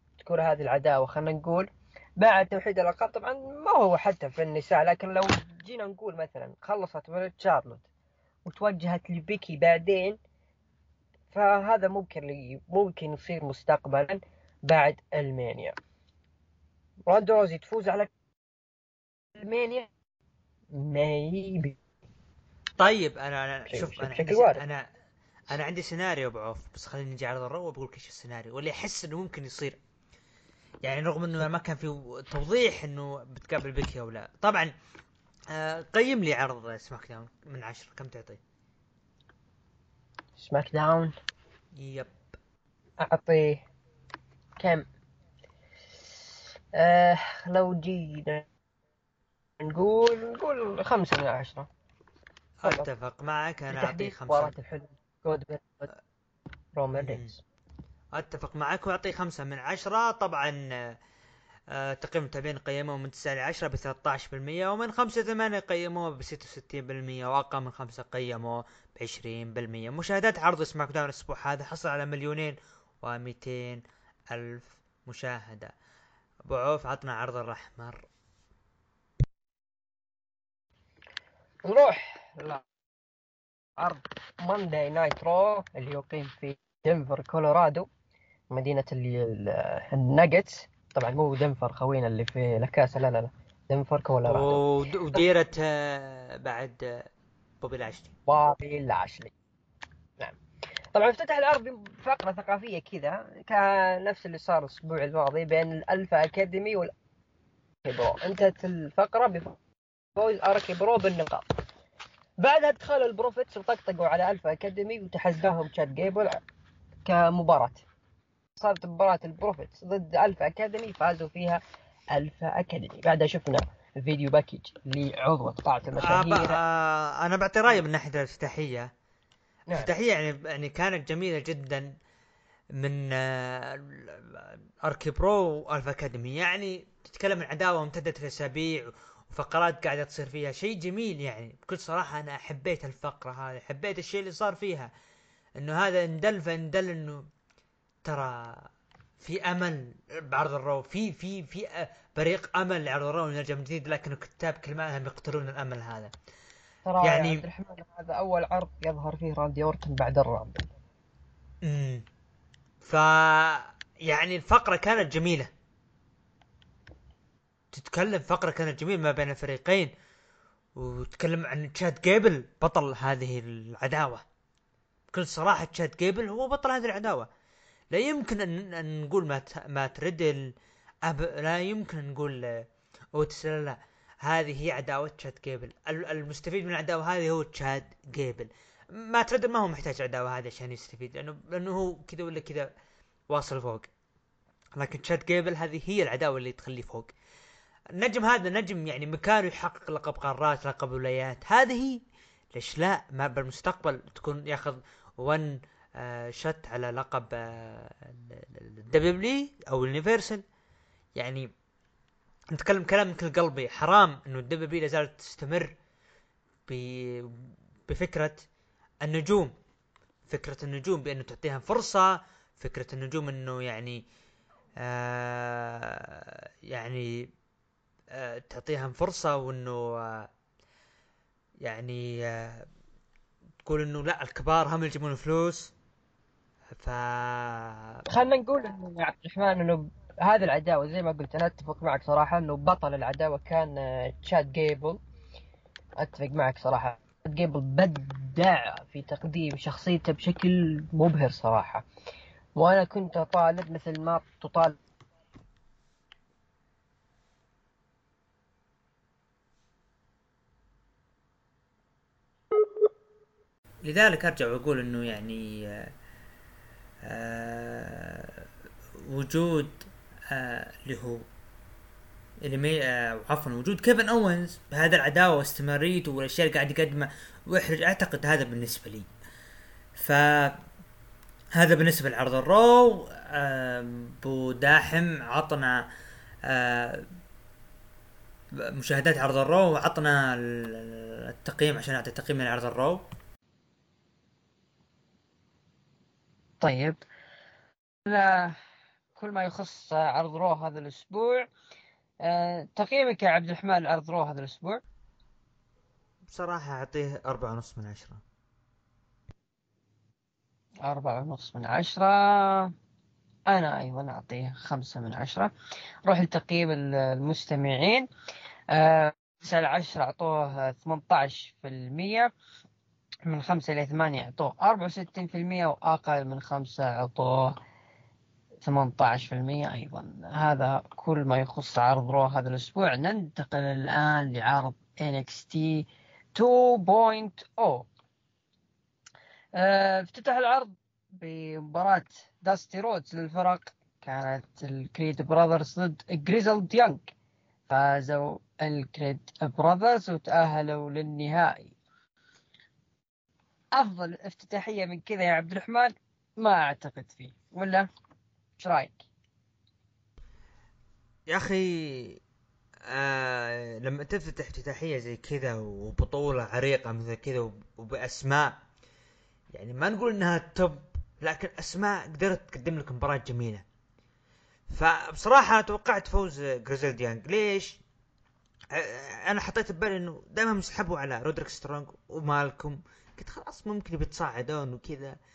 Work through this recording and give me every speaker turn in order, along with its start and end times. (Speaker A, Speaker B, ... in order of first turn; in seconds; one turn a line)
Speaker A: 0.2-7.9
Speaker A: 8.4-10.2
Speaker A: 11.3-15.7
Speaker A: 17.1-18.1
Speaker A: 19.4-19.9
Speaker A: 20.7-21.8
Speaker B: 22.8-24.9
Speaker A: 23.7-24.6
Speaker B: 25.5-29.8
Speaker B: 30.8-34.7
Speaker B: 35.5-38.4
Speaker A: 40.4-41.1
Speaker B: 41.8-42.1
Speaker A: 43.0-43.6
Speaker A: 44.6-44.9
Speaker A: 46.7-48.4
Speaker A: 49.6-51.7
Speaker B: 52.6-54.5
Speaker A: 53.7-55.9
Speaker A: 56.8-57.4
Speaker B: 57.0-57.3
Speaker B: 58.1-61.0
Speaker B: 61.7-75.7
Speaker B: 76.5-78.0
Speaker A: 81.6-82.6
Speaker A: 83.8-87.9
Speaker A: 88.5-94.6
Speaker B: 94.3-97.1
Speaker B: 97.6-98.1
Speaker A: 98.3-99.3
Speaker A: 100.9-106.9
Speaker A: 107.8-109.6
Speaker A: 110.2-111.5
Speaker A: 112.4-116.4
Speaker A: 117.0-117.8
Speaker A: 118.6-121.6
Speaker A: 122.1-126.6
Speaker B: 126.0-128.9
Speaker B: 129.7-131.9
Speaker B: 132.8-144.9
Speaker B: 145.6-147.3
Speaker B: 148.1-148.7
Speaker B: 149.2-156.1
Speaker A: 156.8-160.7
Speaker B: 157.0-157.4
Speaker B: 161.6-162.1
Speaker B: 162.8-165.5
Speaker B: 167.7-169.9
Speaker B: 170.8-174.2
Speaker B: 175.1-177.3
Speaker B: 177.9-180.5
Speaker B: 181.0-192.7
Speaker B: 193.3-193.9
Speaker B: 194.8-197.1
Speaker B: 197.9-202.0
Speaker B: 202.6-210.4
Speaker B: 211.2-211.5
Speaker B: 212.5-215.7
Speaker B: 216.7-218.4
Speaker B: 219.0-219.5
Speaker B: 220.3-224.0
Speaker B: 224.8-227.3
Speaker B: 228.1-230.3
Speaker B: 231.6-232.7
Speaker B: 233.6-235.7
Speaker B: 236.8-238.1
Speaker A: 238.1-245.0
Speaker A: 246.0-251.8
Speaker A: 252.6-254.8
Speaker B: 263.8-265.9
Speaker B: 267.0-268.5
Speaker B: 269.0-271.3
Speaker B: 272.4-279.1
Speaker B: 279.9-280.6
Speaker B: 281.5-285.9
Speaker B: 286.5-287.1
Speaker B: 288.6-293.1
Speaker A: 296.6-297.0
Speaker A: 298.1-298.6
Speaker A: 299.1-301.5
Speaker A: 302.2-304.8
Speaker B: 306.3-308.2
Speaker A: 310.8-312.7
Speaker A: 313.5-315.5
Speaker A: 316.1-318.1
Speaker A: 318.7-322.3
Speaker A: 323.3-327.6
Speaker A: 328.6-337.9
Speaker A: 339.6-347.1
Speaker A: 347.7-351.7
Speaker A: 353.7-357.9
Speaker A: 358.6-359.0
Speaker B: 361.3-362.2
Speaker B: 362.9-368.6
Speaker B: 369.5-373.6
Speaker B: 374.7-377.8
Speaker B: 378.7-385.1